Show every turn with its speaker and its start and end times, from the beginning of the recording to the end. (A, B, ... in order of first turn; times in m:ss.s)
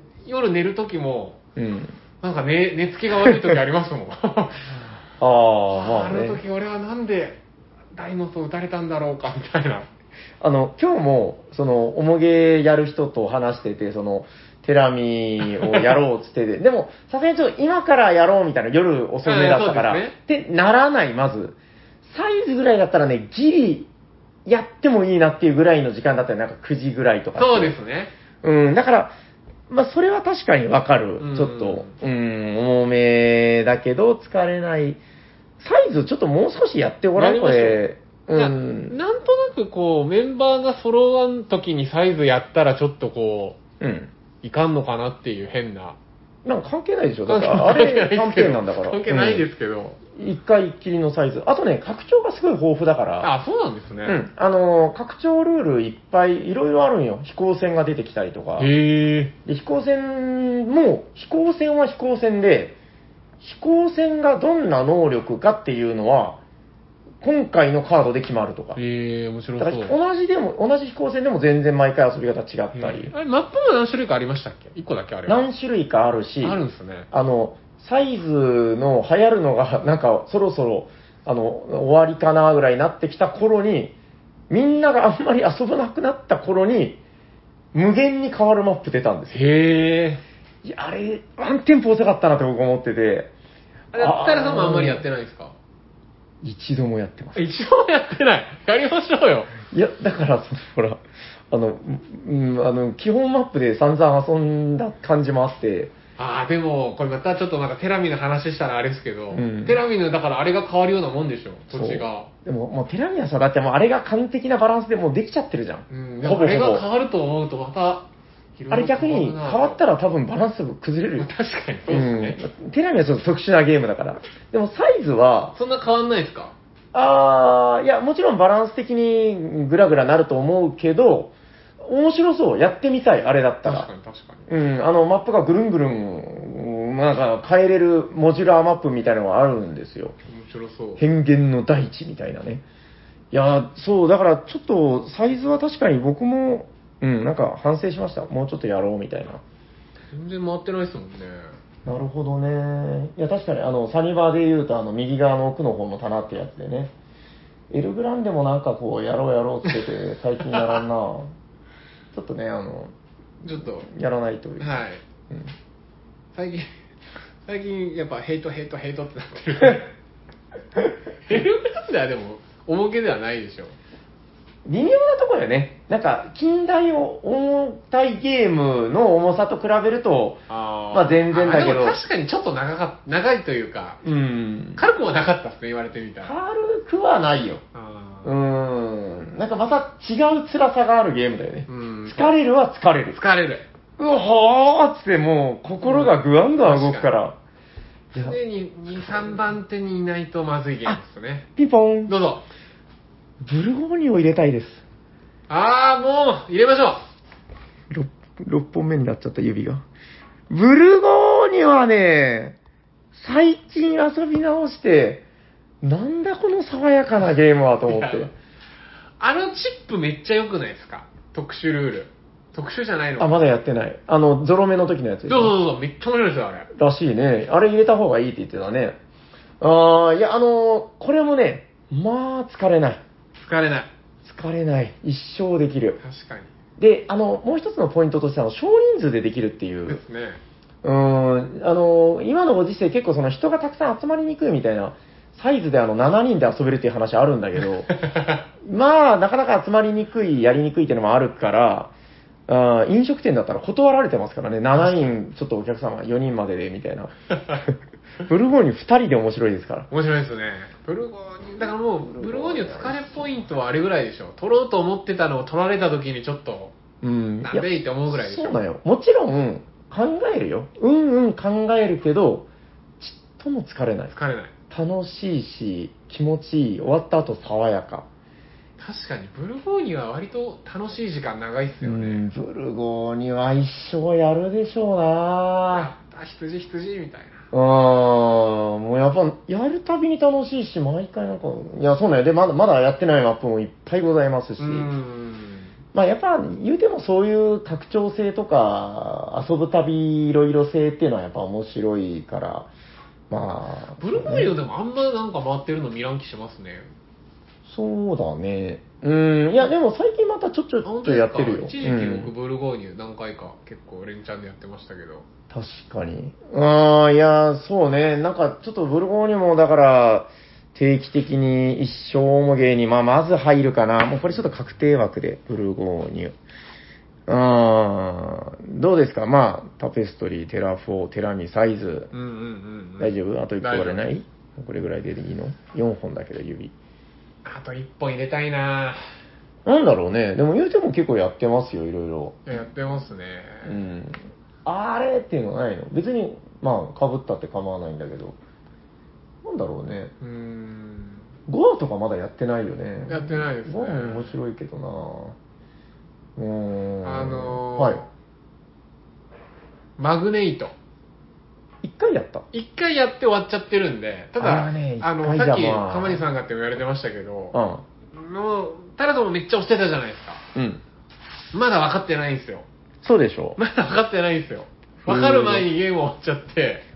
0:00.2-0:01.4 A
0:01.6-0:01.9 B
0:02.2-0:04.9 A
0:03.2-0:03.6 B
0:05.2-0:06.4 B
0:05.7-0:07.4 A
0:07.9-0:09.9 A
0:10.4-0:23.9 B
0:15.4-0:15.9 A
0:19.2-0:20.2 A
0:24.4-0:27.8 B
0:27.4-0:28.1 A
0:28.4-0:29.1 B
0:29.7-0:35.0 B
0:31.2-0:31.9 A
0:35.6-0:39.0 B
0:37.2-0:43.6 A
0:43.8-0:44.1 B
0:44.4-0:46.0 A
0:46.4-0:49.4 B
0:47.3-0:50.0 A
0:50.1-0:53.3 B
0:53.2-0:54.2 A
0:54.0-0:58.7 B
0:58.6-0:59.3 A
0:59.4-1:02.7 B
1:03.4-1:06.4 B
1:07.2-1:08.8 B
1:08.7-1:10.0 A
1:09.6-1:13.1 B
1:12.7-1:15.5 A
1:15.3-1:16.6 B
1:16.4-1:17.1 A
1:17.1-1:23.9 B
1:24.5-1:27.0 B
1:27.7-1:29.4 B
1:29.3-1:30.2 A
1:30.6-1:33.3 B
1:33.9-1:35.5 A
1:33.9-1:35.0 B
1:36.4-1:37.4 B
1:37.3-1:39.5 A
1:39.7-1:45.9 B
1:46.2-1:52.3 A
1:49.3-1:49.8 B
1:51.7-1:56.8 B
1:55.9-1:59.8 A
1:58.7-2:01.3 B
2:01.2-2:02.4 A
2:01.9-2:05.5 B
2:05.5-2:06.5 A
2:06.9-2:13.9 B
2:13.6-2:14.5 A
2:14.5-2:20.1 B
2:20.3-2:21.0 A
2:21.0-2:22.6 B
2:23.3-2:29.4 B
2:30.1-2:31.5 A
2:31.8-2:36.9 B
2:37.7-2:41.3 B
2:40.5-2:40.8 A
2:42.1-2:42.9 B
2:43.4-2:43.9 A
2:43.8-2:45.5 B
2:44.6-2:45.0 A
2:46.3-2:46.8 A
2:47.4-2:49.9 A
2:51.2-2:53.7 A
2:54.6-3:02.0 B
3:00.5-3:04.0 A
3:04.0-3:04.8 B
3:04.8-3:06.3 A
3:06.2-3:07.6 B
3:07.7-3:08.3 A
3:08.2-3:13.2 B
3:11.7-3:12.3 A
3:13.1-3:13.7 A
3:14.0-3:17.4 B
3:15.8-3:17.1 A
3:18.1-3:21.5 A
3:21.6-3:22.1 B
3:22.1-3:22.4 A
3:23.4-3:24.8 B
3:25.5-3:27.1 A
3:27.9-3:29.8 B
3:30.5-3:32.6 B
3:33.1-3:35.2 B
3:35.8-3:38.3 B
3:37.9-3:38.3 A
3:39.2-3:43.4 A
3:43.2-3:45.5 B
3:45.3-3:46.7 A
3:46.7-3:49.0 B
3:49.6-3:53.0 B
3:53.4-3:53.9 A
3:54.2-3:56.0 B
3:56.0-3:56.5 A
3:56.8-4:00.0 B
3:59.9-4:00.4 A
4:00.8-4:07.9 B
4:07.9-4:08.4 A
4:08.6-4:11.9 B
4:12.5-4:17.1 B
4:14.8-4:15.1 A
4:18.3-4:19.9 B
4:19.9-4:26.7 A
4:22.0-4:23.2 B
4:27.0-4:32.5 B
4:27.4-4:28.6 A
4:33.0-4:34.1 B
4:34.1-4:34.5 A
4:34.7-4:38.0 B
4:38.8-4:42.2 A
4:41.8-4:45.9 B
4:45.7-4:47.4 A
4:47.5-4:54.9 B
4:54.6-4:55.7 A
4:55.9-5:02.7 B
5:03.3-5:04.5 B
5:04.0-5:06.9 A
5:07.6-5:12.3 B
5:10.8-5:15.2 A
5:15.5-5:26.3 B
5:27.3-5:32.1 B
5:32.1-5:34.0 A
5:33.0-5:36.7 B
5:37.4-5:39.0 A
5:39.6-5:42.4 B
5:42.4-5:43.8 A
5:43.6-5:48.4 B
5:49.4-5:50.1 B
5:50.2-5:51.3 A
5:51.5-5:55.4 B
5:53.1-5:54.4 A
5:56.4-5:58.0 B
5:57.0-5:58.0 A
6:00.0-6:00.7 A
6:01.8-6:02.4 B
6:02.5-6:07.6 A
6:04.4-6:06.2 B
6:07.5-6:07.8 B
6:08.1-6:10.4 A
6:10.5-6:10.8 B
6:11.5-6:12.6 A
6:13.0-6:13.6 B
6:13.6-6:16.8 A
6:15.0-6:15.7 B